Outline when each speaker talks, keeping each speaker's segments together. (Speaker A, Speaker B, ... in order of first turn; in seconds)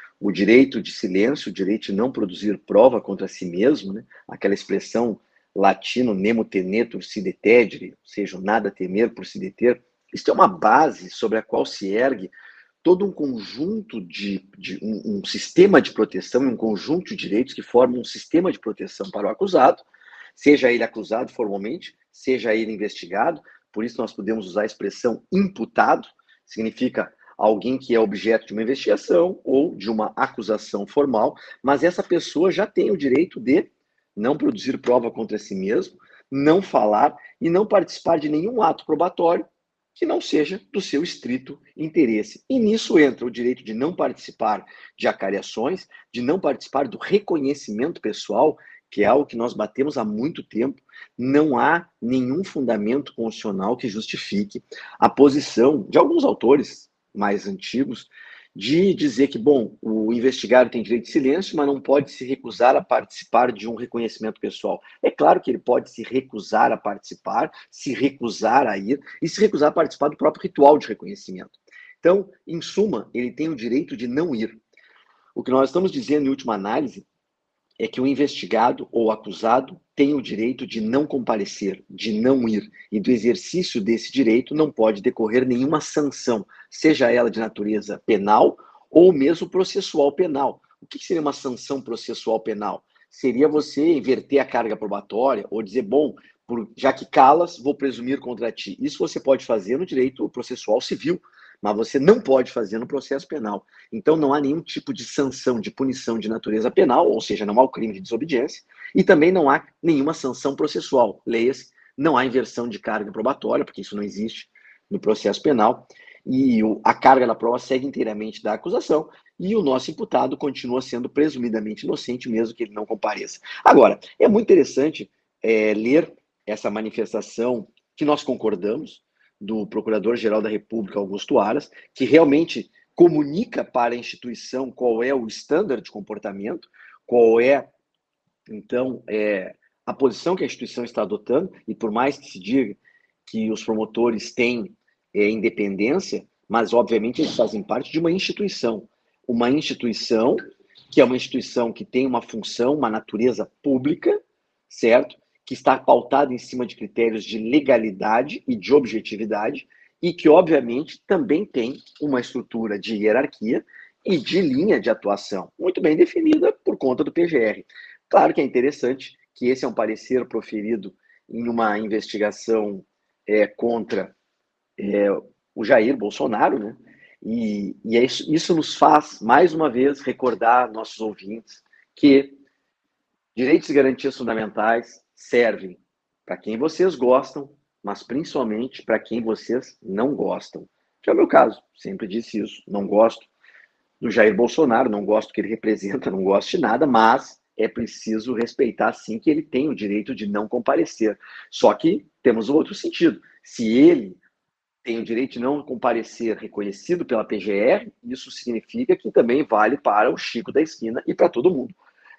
Speaker A: 0.2-74.6, 75.3-77.0, 77.8-137.7, 138.5-174.1, 174.8-182.4, 183.3-193.3, 194.0-204.2, 204.8-211.8